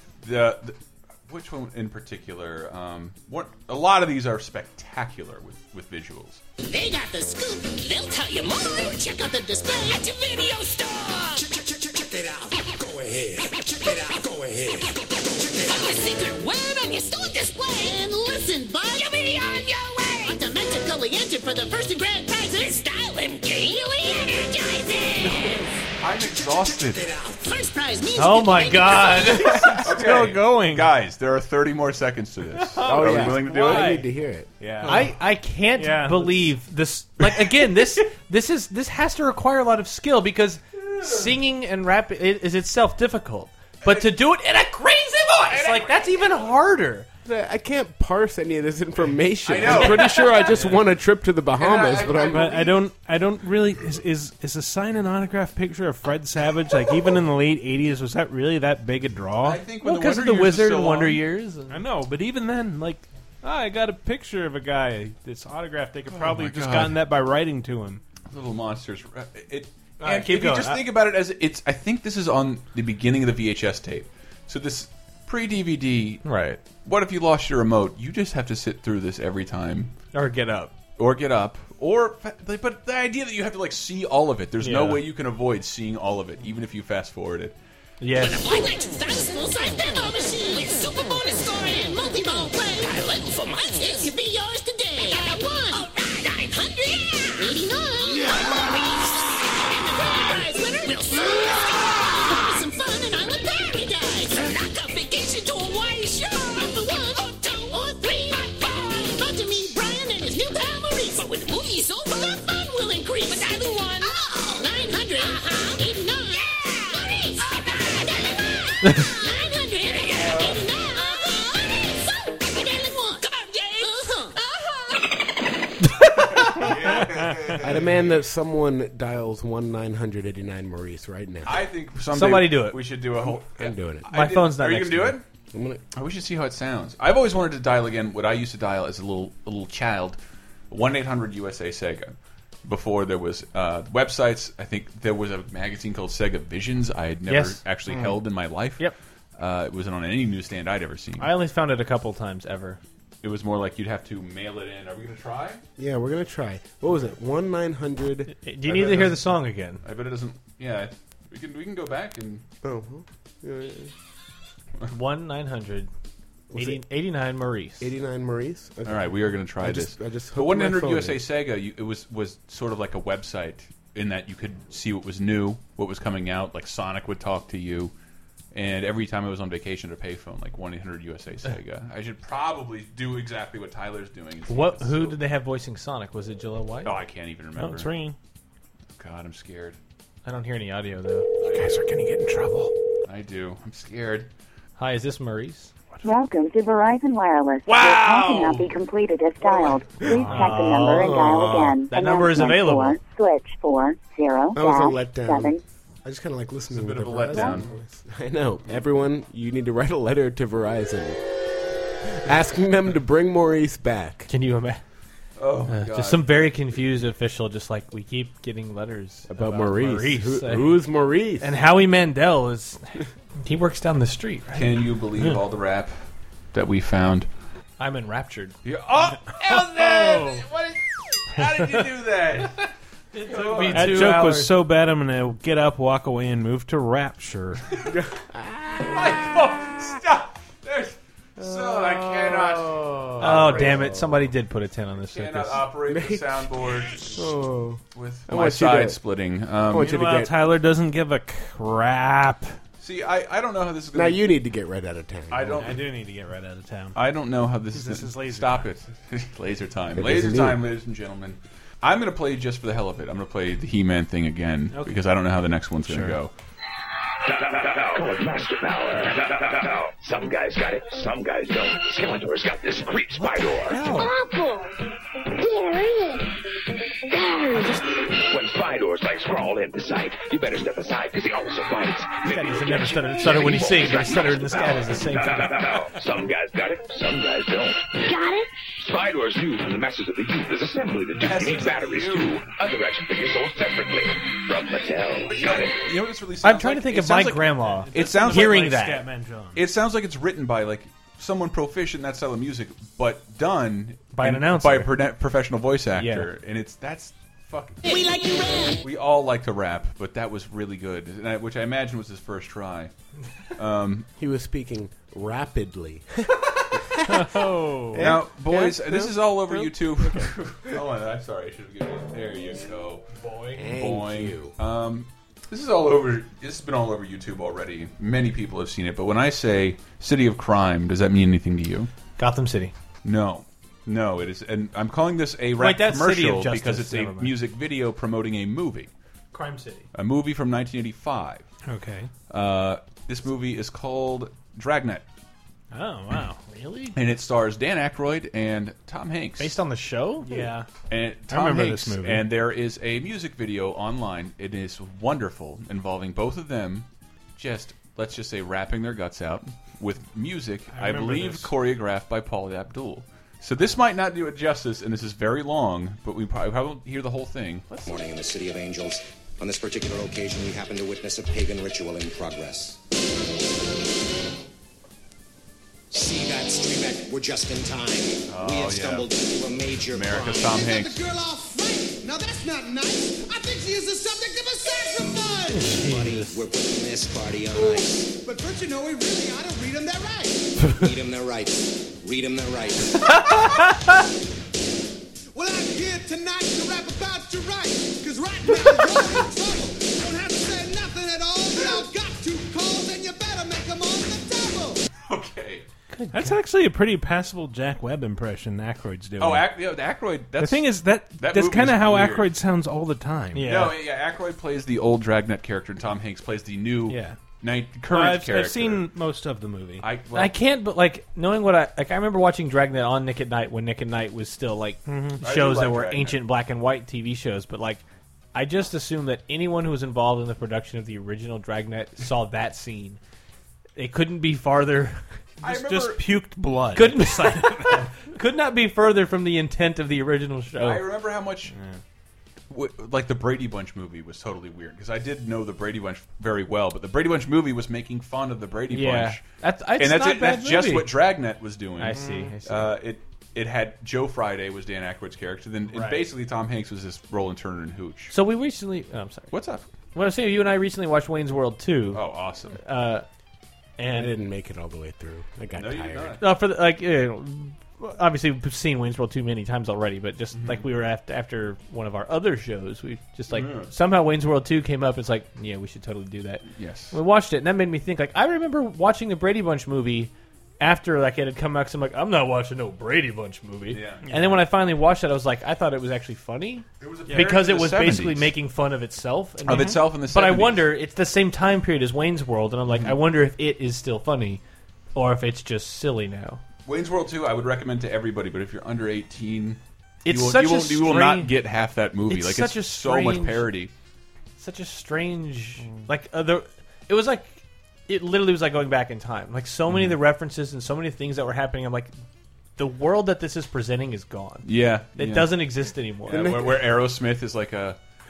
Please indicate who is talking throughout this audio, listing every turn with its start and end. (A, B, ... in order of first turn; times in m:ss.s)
0:00.2-0:06.4 A
0:06.6-0:11.4 B
0:15.5-0:25.8 B
0:26.0-0:27.2 A
0:27.2-0:29.4 B
0:28.2-0:29.8 C
0:29.4-0:34.0 A
0:29.6-0:30.9 D
0:32.6-0:34.0 D
0:32.8-0:34.5 E
0:34.6-0:35.1 D
0:34.8-0:35.1 A
0:34.8-0:47.1 C
0:35.8-0:36.6 D
0:45.5-0:46.3 A
0:47.2-0:52.5 E
0:49.4-0:50.8 A
0:51.6-0:52.7 A
0:52.2-0:59.6 D
0:59.4-1:01.2 A
0:59.8-1:01.8 C
1:01.7-1:08.0 D
1:06.1-1:07.0 A
1:08.3-1:16.2 A
1:10.0-1:10.9 C
1:16.2-1:16.6 C
1:16.8-1:19.9 A
1:20.1-1:20.7 C
1:21.0-1:27.6 A
1:24.6-1:25.0 C
1:28.0-1:28.5 C
1:28.2-2:04.5 B
2:00.2-2:00.6 A
2:05.9-2:06.6 C
2:06.4-2:08.1 A
2:07.6-2:11.6 E
2:11.4-2:15.2 A
2:12.1-2:12.8 C
2:13.5-2:14.1 E
2:14.1-2:15.2 C
2:15.5-2:15.8 E
2:15.9-2:20.2 A
2:20.7-2:22.1 A
2:22.6-2:31.3 A
2:27.3-2:27.6 C
2:31.2-2:32.8 C
2:33.2-2:35.6 A
2:35.8-2:38.3 E
2:38.4-2:39.8 C
2:38.7-2:39.2 A
2:39.8-2:42.4 A
2:42.6-2:43.9 E
2:44.9-2:45.9 C
2:46.5-2:46.8 E
2:46.6-2:47.9 C
2:47.8-2:51.2 E
2:48.8-2:57.9 A
2:58.5-3:05.2 A
3:04.5-3:06.9 C
3:06.8-3:07.9 A
3:07.6-3:08.2 D
3:09.0-3:09.8 A
3:10.2-3:11.3 C
3:11.4-3:12.7 D
3:13.0-3:14.3 A
3:14.8-3:15.7 C
3:16.0-3:25.6 F
3:17.7-3:18.6 D
3:20.0-3:20.6 D
3:20.2-3:23.0 C
3:24.6-3:31.2 E
3:26.7-3:27.7 A
3:32.2-3:34.3 E
3:34.3-3:34.8 C
3:35.4-3:36.4 A
3:35.7-3:40.8 C
3:39.3-3:41.5 E
3:41.4-3:45.4 C
3:44.5-3:46.0 A
3:46.5-3:47.3 A
3:47.8-3:48.6 C
3:48.6-3:50.7 A
3:49.8-3:50.3 D
3:51.3-3:52.7 A
3:53.2-3:54.5 C
3:53.3-3:54.1 A
3:53.6-3:57.6 D
3:57.9-3:59.0 E
3:58.8-4:03.8 A
4:01.4-4:04.2 E
4:03.2-4:05.6 C
4:05.1-4:07.3 A
4:05.9-4:09.0 E
4:07.9-4:10.0 A
4:09.7-4:10.3 E
4:09.8-4:12.6 D
4:12.8-4:14.2 A
4:13.9-4:15.7 E
4:15.3-4:15.8 A
4:15.6-4:17.0 D
4:17.0-4:26.3 A
4:17.7-4:18.7 D
4:19.9-4:20.6 E
4:24.7-4:25.0 D
4:25.8-4:26.2 D
4:27.3-4:33.9 G
4:33.2-4:34.1 C
4:33.9-4:34.8 H
4:35.4-4:36.3 H
4:37.1-4:37.8 H
4:38.1-4:47.8 G
4:42.3-4:45.5 C
4:48.1-4:48.5 H
4:48.8-4:55.8 G
4:51.2-4:52.4 A
4:55.3-4:58.7 A
4:56.4-4:59.0 C
4:57.7-4:59.6 D
4:59.6-5:07.8 A
5:04.1-5:04.9 C
5:06.0-5:06.3 C
5:07.8-5:08.8 B
5:08.8-5:12.9 A
5:13.6-5:14.1 A
5:14.2-5:17.4 E
5:17.1-5:18.2 D
5:17.9-5:19.7 E
5:18.0-5:23.0 A
5:23.2-5:23.6 D
5:23.6-5:24.5 E
5:23.7-5:31.9 A
5:32.2-5:32.7 C
5:33.0-5:38.9 A
5:35.6-5:37.3 C
5:39.3-5:39.9 C
5:39.9-5:41.5 A
5:41.7-5:42.1 D
5:42.3-5:45.0 A
5:45.7-5:46.4 D
5:46.5-5:47.0 C
5:47.0-5:49.6 A
5:49.4-5:50.4 C
5:50.2-5:50.7 D
5:50.9-6:08.1 A
5:51.3-5:52.3 D
6:00.7-6:01.5 D
6:07.9-6:12.8 I
6:15.9-6:20.4 I
6:18.3-6:19.1 A
6:19.9-6:21.0 A
6:20.4-6:25.7 J
6:25.5-6:26.4 C
6:25.8-6:28.1 I
6:27.6-6:30.7 J
6:30.7-6:33.0 I
6:35.3-6:44.8 J
6:45.0-6:45.7 A
6:45.9-6:46.4 C
6:46.1-6:49.5 D
6:49.2-6:52.3 A
6:50.4-6:53.7 D
6:53.4-6:53.7 C
6:53.4-6:58.8 A
6:56.9-6:57.2 D
6:57.9-6:59.9 D
6:59.8-7:00.4 A
7:00.1-7:07.8 C
7:04.9-7:05.2 D
7:05.2-7:06.2 A
7:08.3-7:13.0 C
7:13.8-7:15.0 C
7:15.4-7:16.1 A
7:15.4-7:17.9 D
7:16.7-7:20.8 C
7:20.6-7:21.5 A
7:21.5-7:21.8 D
7:22.5-7:29.3 A
7:28.7-7:30.9 C
7:29.8-7:38.1 A
7:31.8-7:32.7 C
7:31.9-7:32.3 D
7:38.1-7:39.3 C
7:39.3-7:39.7 A
7:39.9-7:42.0 C
7:41.9-7:42.6 A
7:42.6-7:43.0 C
7:43.8-7:44.1 C
7:43.9-7:46.2 E
7:45.5-7:46.2 A
7:46.2-8:14.4 C
7:50.3-7:50.7 A
7:53.3-7:53.7 A
7:56.4-7:57.0 A
8:03.7-8:04.1 A
8:04.0-8:04.4 D
8:06.8-8:08.4 A
8:09.4-8:10.7 A
8:12.7-8:13.0 A
8:15.0-8:16.4 C
8:16.7-8:23.7 A
8:20.0-8:21.3 C
8:22.1-8:23.5 C
8:24.4-8:31.9 C
8:32.6-8:36.3 C
8:34.4-8:35.3 A
8:36.1-8:37.8 A
8:36.1-8:36.7 E